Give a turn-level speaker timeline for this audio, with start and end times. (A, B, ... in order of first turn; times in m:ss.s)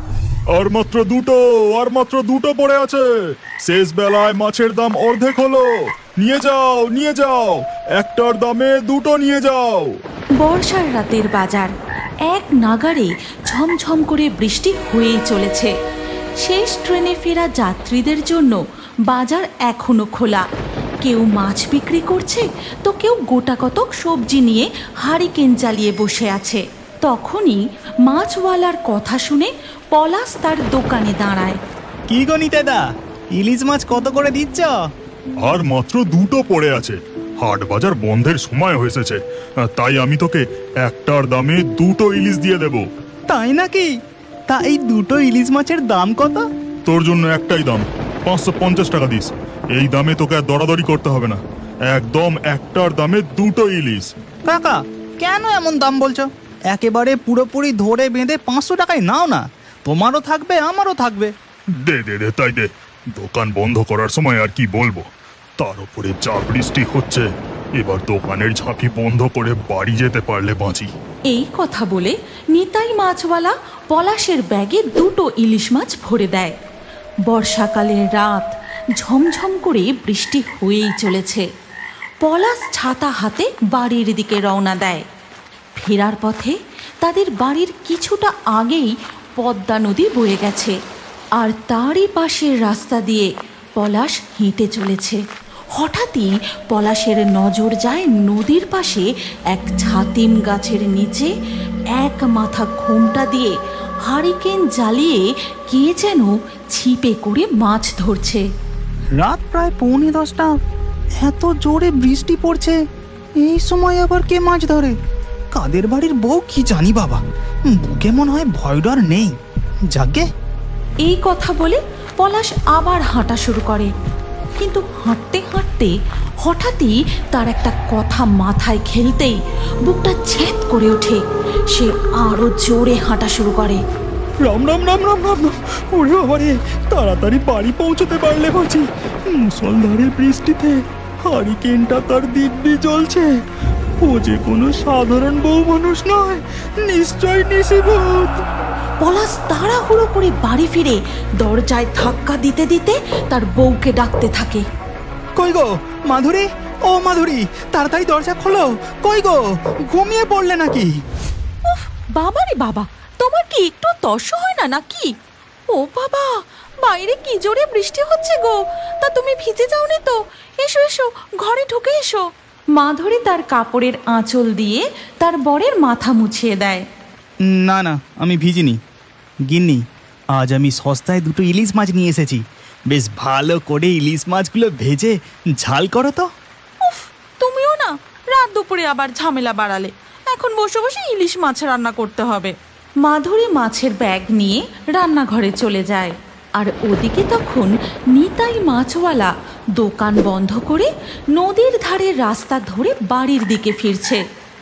0:00.5-0:03.1 A
0:03.6-0:05.7 A
0:06.2-0:10.0 A
0:10.4-0:11.7 B
0:12.3-0:15.7 B
0:16.4-0:20.5 B
0:21.0-0:31.6 B
0:32.1-0:32.8 C
0:33.4-0:34.7 C
0:35.4-0:42.9 A
0:43.3-0:43.9 C
0:44.5-0:46.4 C
0:46.9-0:54.1 A
0:54.5-1:01.3 C
1:01.8-1:05.1 A
1:05.6-1:07.3 A
1:07.8-1:10.9 A
1:11.3-1:16.5 B
1:17.3-1:21.4 B
1:22.2-1:25.0 B
1:25.8-1:30.8 B
1:31.4-1:35.2 B
1:35.8-1:41.3 B
1:41.9-1:43.5 B
1:44.0-1:48.4 B
1:49.2-1:50.5 C
1:51.2-1:52.8 C
1:53.4-1:55.0 C
1:55.6-1:59.3 C
1:59.9-2:00.3 C
2:01.0-2:03.9 B
2:04.6-2:05.9 B
2:06.4-2:11.2 B
2:11.7-2:13.8 B
2:14.4-2:23.3 C
2:24.0-2:28.4 C
2:29.0-2:34.6 B
2:35.4-2:41.0 C
2:41.7-2:45.1 B
2:45.7-2:52.2 B
2:52.8-2:56.8 B
2:57.4-2:58.8 C
2:59.5-2:59.8 C
3:00.4-3:06.3 C
3:06.8-3:24.2 B